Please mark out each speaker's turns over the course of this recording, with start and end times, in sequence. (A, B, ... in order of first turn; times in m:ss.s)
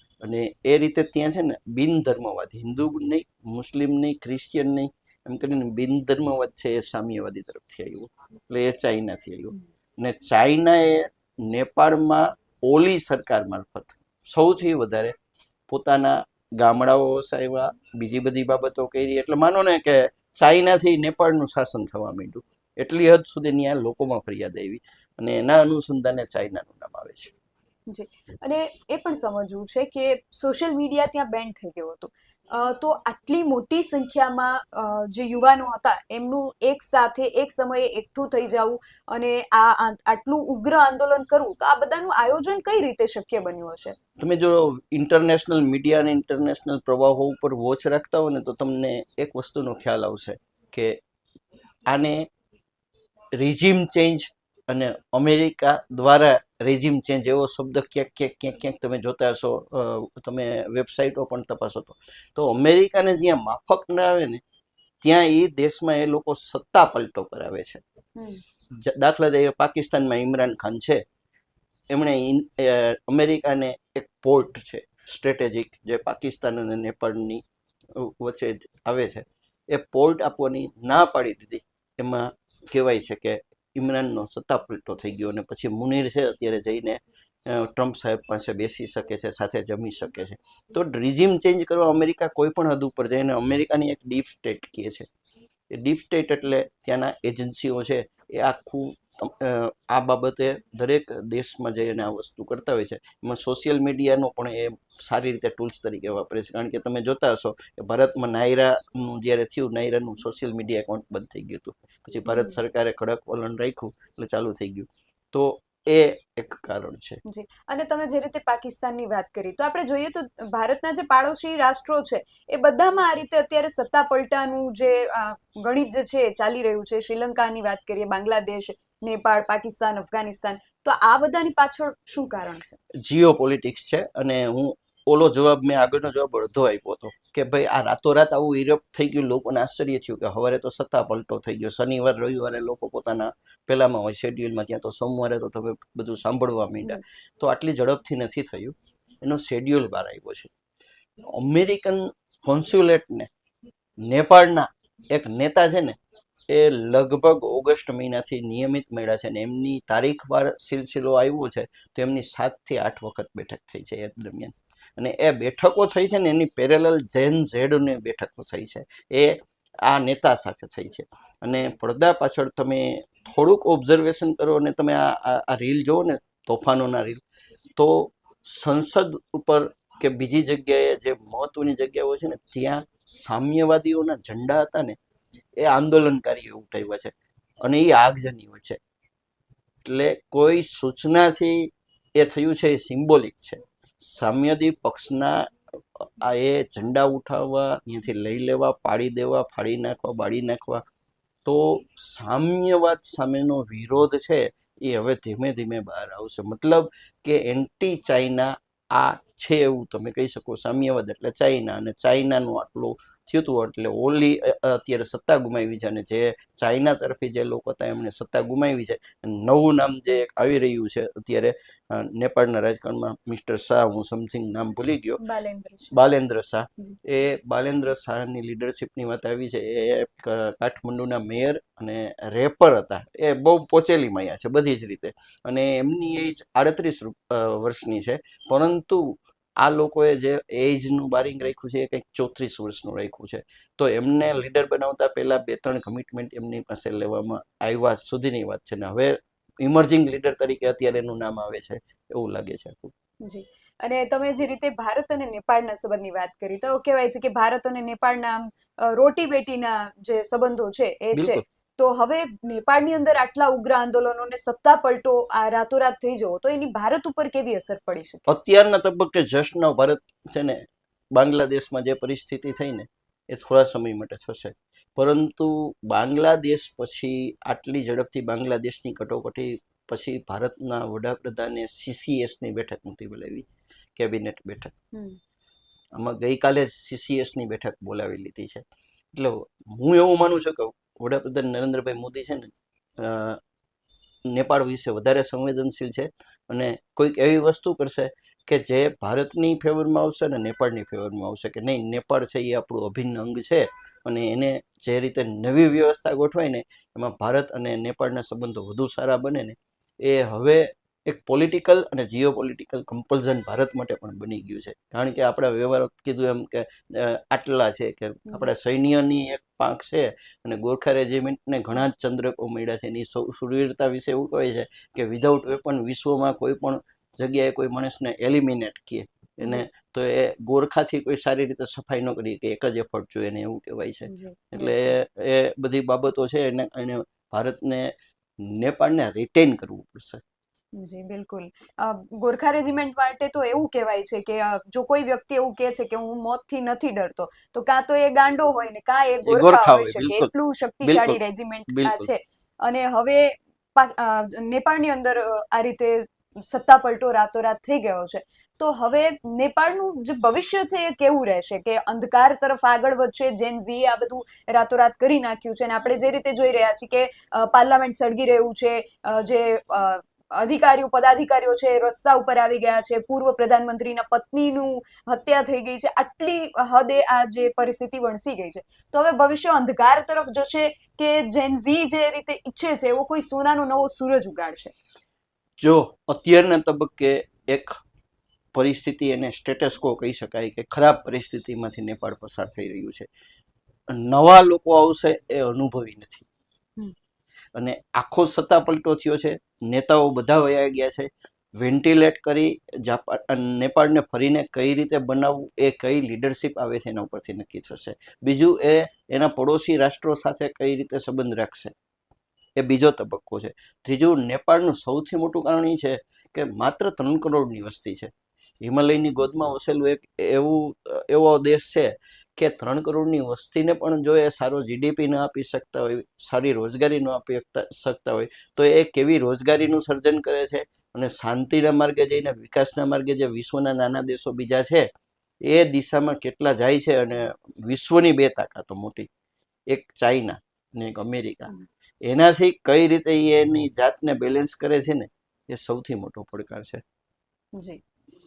0:00.2-0:15.2 A
0:15.7-0:27.3 A
0:27.9-0:44.0 B
0:44.2-0:51.0 A
0:51.9-0:52.3 A
0:53.4-1:04.4 A
1:05.0-1:07.8 A
1:08.2-1:08.4 B
1:08.8-1:11.0 A
1:11.9-1:17.4 A
1:18.0-1:35.1 A
1:35.7-1:57.2 A
1:52.3-1:52.6 B
1:57.2-2:12.8 B
2:13.0-2:30.5 A
2:31.3-2:33.3 A
2:34.0-2:36.0 A
2:36.5-2:57.2 A
2:57.8-3:05.0 A
3:05.6-3:08.8 A
3:09.8-3:20.8 A
3:21.4-3:45.2 A
3:45.2-3:45.9 B
3:45.9-4:12.9 A
4:13.2-4:28.3 B
4:21.1-4:21.4 A
4:28.3-4:30.6 A
4:31.2-4:43.4 A
4:44.0-4:44.7 A
4:44.9-4:45.2 B
4:46.0-4:53.4 A
4:54.3-5:40.2 A
5:34.1-5:34.8 B
5:40.8-6:24.7 B
5:49.2-5:50.3 A
5:50.8-5:52.1 A
6:25.6-6:27.7 A
6:28.5-6:33.1 A
6:33.9-6:36.3 A
6:37.6-6:51.7 A
6:52.6-7:14.9 A
7:15.5-7:19.1 A
7:19.7-7:21.5 A
7:22.0-7:26.8 A
7:27.5-7:27.8 B